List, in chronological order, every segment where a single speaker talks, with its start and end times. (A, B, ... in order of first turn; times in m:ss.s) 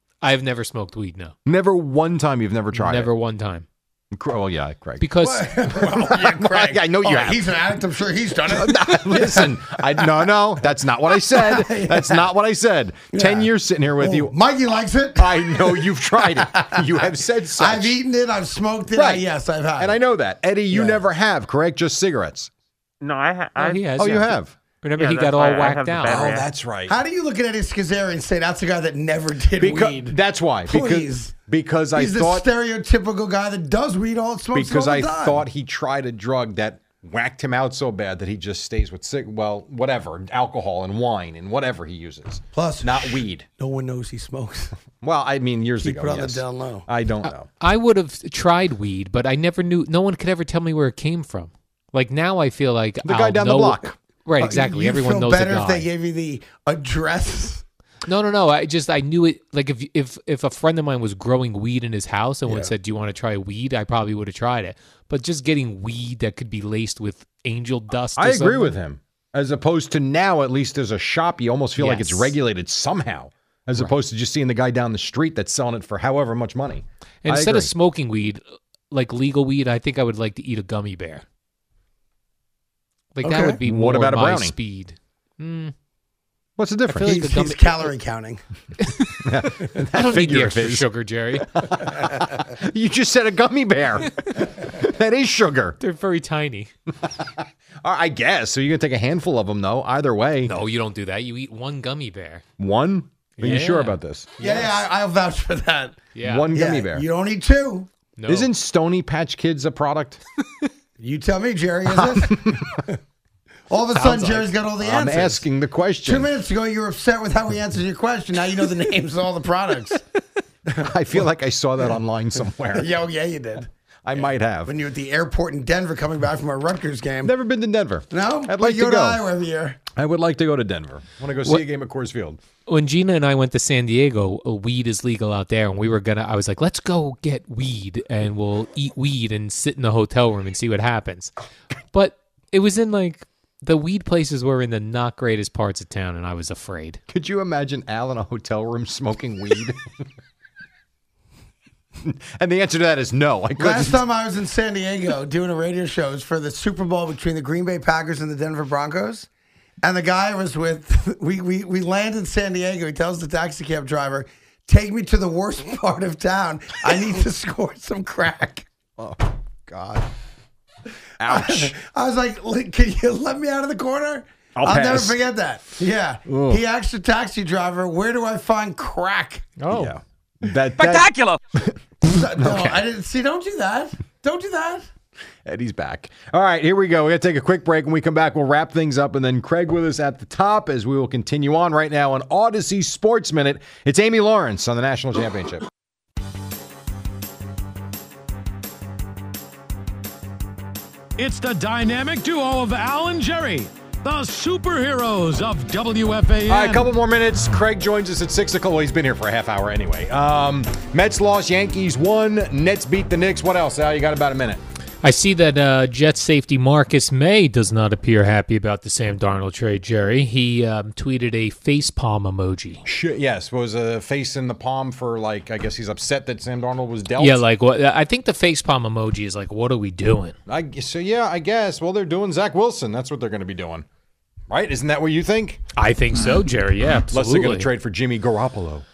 0:00.2-0:01.3 A
0:01.4-0:03.1 B
0:02.7-0:03.7 A
0:04.1-0:05.1 B
0:05.0-0:05.5 A
0:05.2-0:10.3 C
0:05.7-0:07.4 B
0:08.5-0:14.4 B
0:11.1-0:12.3 C
0:13.1-0:20.0 C
0:15.2-0:18.0 B
0:18.9-0:19.3 B
0:19.8-0:22.5 B
0:20.7-0:21.0 C
0:23.0-0:23.9 D
0:23.6-0:26.4 A
0:24.0-0:24.6 B
0:25.0-0:26.5 D
0:26.1-0:31.4 C
0:26.2-0:27.0 B
0:29.6-0:32.5 B
0:31.9-0:35.4 C
0:34.5-0:43.5 B
0:42.5-0:44.8 C
0:44.9-0:47.5 B
0:45.8-0:46.9 C
0:47.2-0:55.9 A
0:53.0-0:54.0 B
0:54.4-0:57.6 C
0:58.1-1:08.8 A
1:08.2-1:17.7 B
1:11.8-1:12.4 A
1:17.2-1:21.2 A
1:23.1-1:25.7 A
1:23.2-1:23.6 C
1:23.4-1:24.6 B
1:26.6-1:27.3 B
1:26.9-1:27.9 A
1:26.9-1:28.4 C
1:28.8-1:31.5 A
1:29.2-1:30.9 B
1:31.5-1:35.8 B
1:35.8-1:36.7 A
1:37.0-1:40.5 B
1:40.5-1:42.4 A
1:42.6-1:44.4 B
1:43.4-1:44.7 A
1:44.4-1:47.9 C
1:46.1-1:46.5 A
1:46.2-1:47.1 B
1:48.2-1:48.5 A
1:48.3-1:50.2 B
1:51.0-1:53.0 C
1:51.9-1:52.8 B
1:53.7-1:55.5 C
1:53.9-1:54.5 A
1:54.8-1:56.3 B
1:56.0-2:00.0 C
2:00.7-2:01.2 C
2:00.8-2:02.9 B
2:02.7-2:03.7 C
2:04.0-2:04.8 B
2:04.6-2:07.3 C
2:07.2-2:09.2 B
2:08.1-2:09.8 C
2:09.9-2:12.4 B
2:12.7-2:21.3 A
2:21.9-2:27.0 A
2:27.1-2:29.8 B
2:32.0-2:34.0 B
2:33.6-2:39.3 C
2:39.8-2:48.7 C
2:49.0-2:50.1 B
2:51.2-2:51.8 B
2:51.2-2:59.6 C
2:54.6-2:55.3 B
2:56.3-2:56.6 B
2:59.6-2:59.9 A
2:59.7-3:02.9 B
3:02.0-3:04.9 C
3:05.4-3:15.7 B
3:21.2-3:26.9 E
3:26.5-3:34.6 B
3:35.0-3:42.8 A
3:42.8-3:47.4 B
3:47.2-3:50.4 A
3:50.5-3:53.9 B
3:54.5-3:55.6 B
3:55.8-3:57.7 A
3:57.1-3:58.8 B